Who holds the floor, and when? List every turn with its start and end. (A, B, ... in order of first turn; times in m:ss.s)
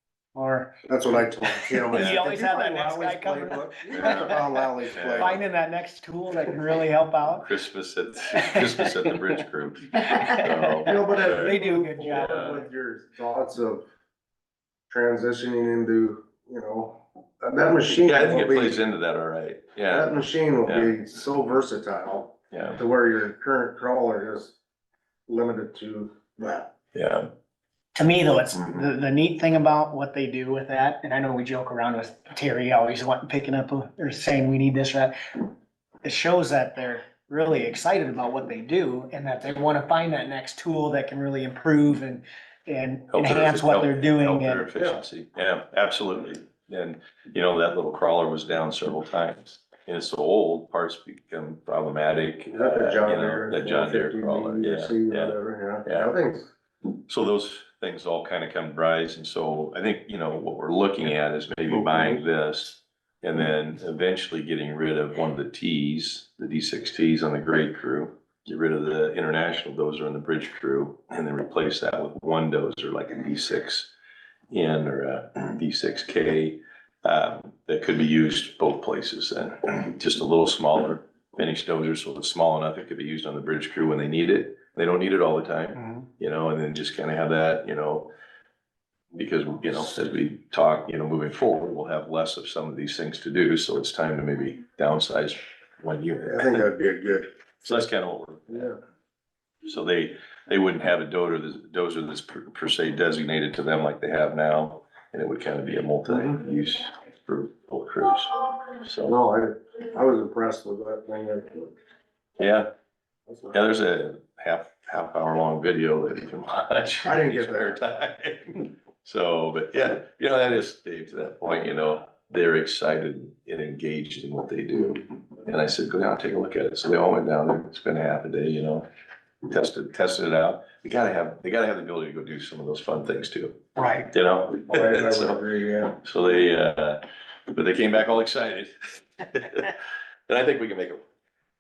0:00.3-0:00.7 A
0:00.9-0:05.4 B
0:01.4-0:07.5 A
0:03.9-0:04.4 C
0:04.9-0:05.4 C
0:07.3-0:12.6 C
0:08.3-0:09.1 A
0:10.1-0:12.6 A
0:10.8-0:13.8 B
0:14.9-0:18.8 B
0:18.0-0:21.0 C
0:19.9-0:24.6 B
0:22.5-0:22.8 C
0:25.3-0:26.7 B
0:26.9-0:27.3 C
0:27.9-0:35.5 A
0:28.5-0:28.8 C
0:36.0-0:44.7 A
0:43.1-0:56.1 C
0:52.5-0:56.5 B
0:57.1-1:13.9 C
1:01.7-1:02.2 B
1:14.5-1:28.1 C
1:29.1-1:36.6 C
1:36.2-1:37.3 B
1:37.6-1:38.7 C
1:38.5-1:38.7 B
1:39.6-1:49.2 C
1:46.0-1:46.3 B
1:49.0-1:51.7 B
1:52.4-1:52.7 C
1:53.3-1:53.6 B
1:53.5-2:08.9 C
1:57.0-1:57.8 B
2:09.4-2:19.7 C
2:13.8-2:14.1 A
2:14.5-2:15.9 B
2:20.3-2:21.0 C